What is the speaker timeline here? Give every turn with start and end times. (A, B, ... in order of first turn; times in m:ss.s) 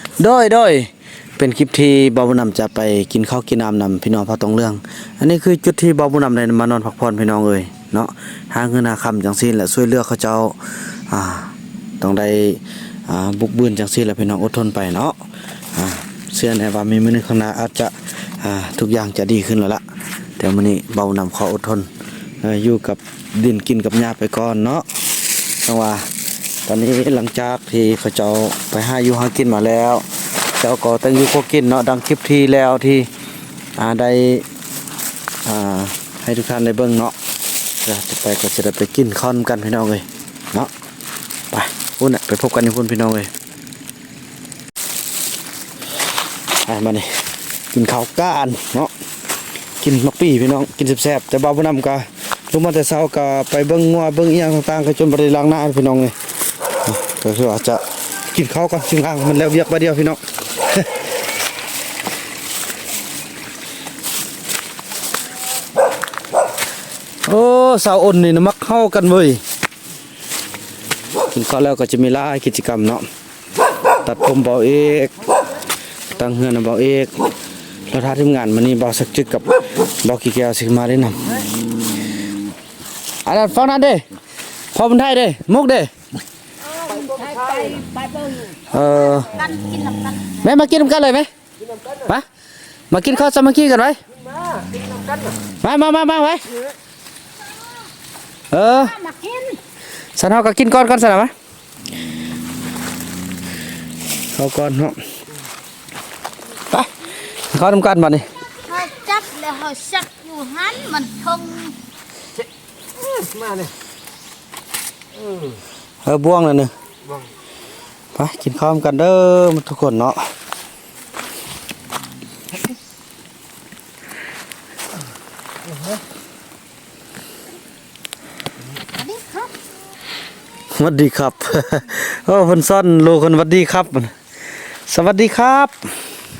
0:00.2-0:15.1 A
0:15.7-0:19.8 A
0:20.4-0:21.9 A
0:22.4-0:24.9 A
0:25.6-0:26.1 A
0:26.6-0:33.1 A
0:33.8-0:34.4 A
0:35.4-0:37.1 A
0:37.8-0:40.7 A
0:41.5-0:43.3 A
0:46.6-0:47.2 A
0:47.7-0:48.9 A
0:49.8-0:56.1 A
0:56.8-1:01.1 A
1:07.2-1:09.4 A
1:11.3-1:13.1 A
1:14.0-1:15.2 A
1:16.1-1:17.3 A
1:17.9-1:21.4 A
1:23.2-1:24.0 A
1:24.7-1:25.9 A
1:26.7-1:30.7 B
1:26.8-1:27.8 C
1:28.7-1:29.4 A
1:30.4-1:31.3 A
1:31.6-1:32.1 C
1:32.9-1:34.0 A
1:34.1-1:35.4 C
1:35.6-1:36.5 A
1:37.4-1:37.9 B
1:38.5-1:39.0 A
1:38.6-1:39.6 B
1:40.2-1:41.3 A
1:44.3-1:45.0 A
1:46.7-1:48.2 A
1:48.6-1:51.8 B
1:52.4-1:53.7 C
1:55.1-1:55.6 C
1:56.0-1:56.7 A
1:58.1-2:00.3 A
2:05.6-2:06.0 C
2:08.8-2:09.5 B
2:10.7-2:14.1 A
2:14.9-2:15.9 A